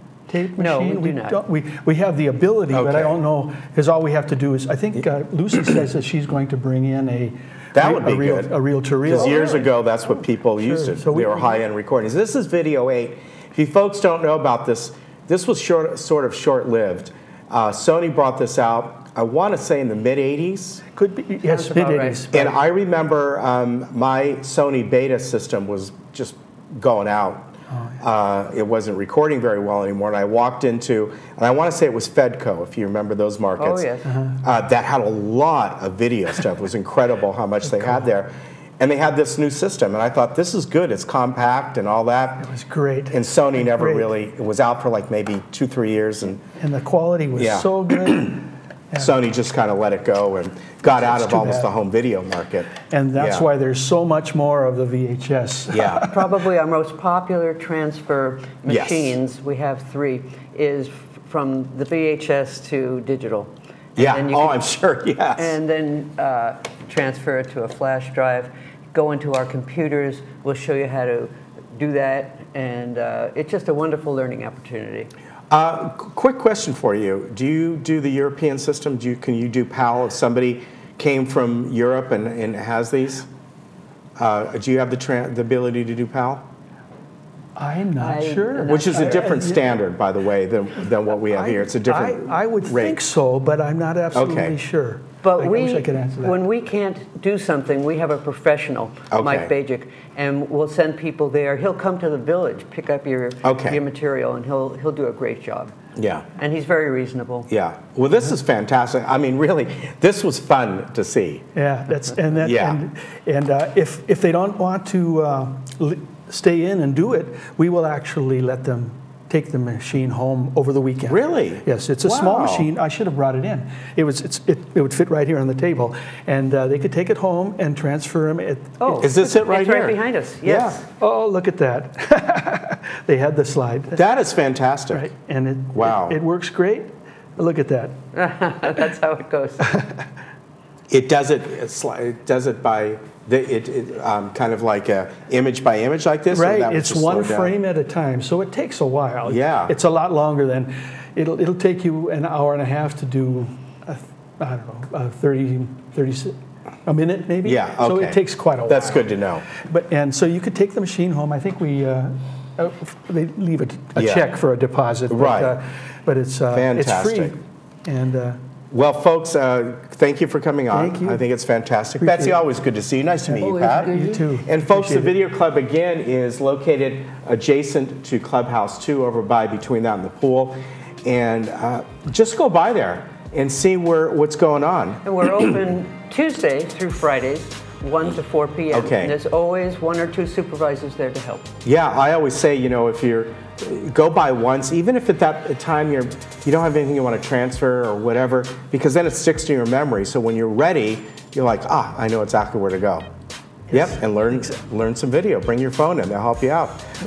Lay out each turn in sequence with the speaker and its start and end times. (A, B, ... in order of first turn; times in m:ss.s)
0:00.3-0:09.5 A
0:00.6-0:01.4 B
0:02.7-0:03.2 C
0:07.7-0:08.5 C
0:09.0-0:20.8 C
0:09.1-0:09.7 B
0:10.6-0:11.6 A
0:20.9-0:22.5 A
0:21.4-0:22.5 B
0:22.3-0:33.9 C
0:27.7-0:28.0 A
0:33.6-0:34.1 B
0:34.0-0:34.4 A
0:34.4-0:42.5 C
0:37.7-0:38.0 A
0:42.4-0:44.1 A
0:43.1-0:46.4 C
0:46.6-0:49.1 A
0:47.4-0:48.4 C
0:49.0-0:53.5 C
0:50.8-0:51.7 A
0:52.8-0:56.1 A
0:55.7-0:56.1 C
0:56.0-1:04.6 B
0:58.7-0:59.2 C
1:04.0-1:05.6 C
1:05.4-1:15.1 B
1:15.5-1:23.3 C
1:24.2-1:26.4 C
1:27.6-1:29.7 A
1:28.0-1:29.3 B
1:28.6-1:33.0 C
1:31.3-1:36.4 A
1:34.1-1:34.5 C
1:35.2-1:45.7 B
1:39.1-1:39.5 C
1:43.4-1:43.8 C
1:46.0-1:46.2 C
1:46.4-1:47.5 B
1:47.5-1:51.4 C
1:51.5-2:09.1 A
1:52.4-1:52.8 C
2:01.1-2:02.7 C
2:08.8-2:10.8 B
2:09.0-2:10.8 C
2:11.0-2:14.0 A
2:13.9-2:15.1 C
2:14.9-2:17.9 A
2:15.7-2:16.2 C
2:18.1-2:19.6 B
2:19.6-2:20.0 A
2:20.9-2:27.5 C
2:26.3-2:36.3 A
2:29.2-2:29.7 C
2:36.8-2:48.4 A
2:37.4-2:39.4 C
2:44.0-2:44.3 C
2:45.1-2:45.6 C
2:46.5-2:47.3 C
2:48.7-3:05.0 C
2:50.7-2:51.2 A
2:52.0-2:52.4 A
2:53.3-2:55.1 A
2:53.4-2:54.2 B
3:05.0-3:11.5 B
3:08.7-3:09.1 C
3:11.6-3:23.0 C
3:23.7-3:24.5 A
3:23.7-3:26.8 C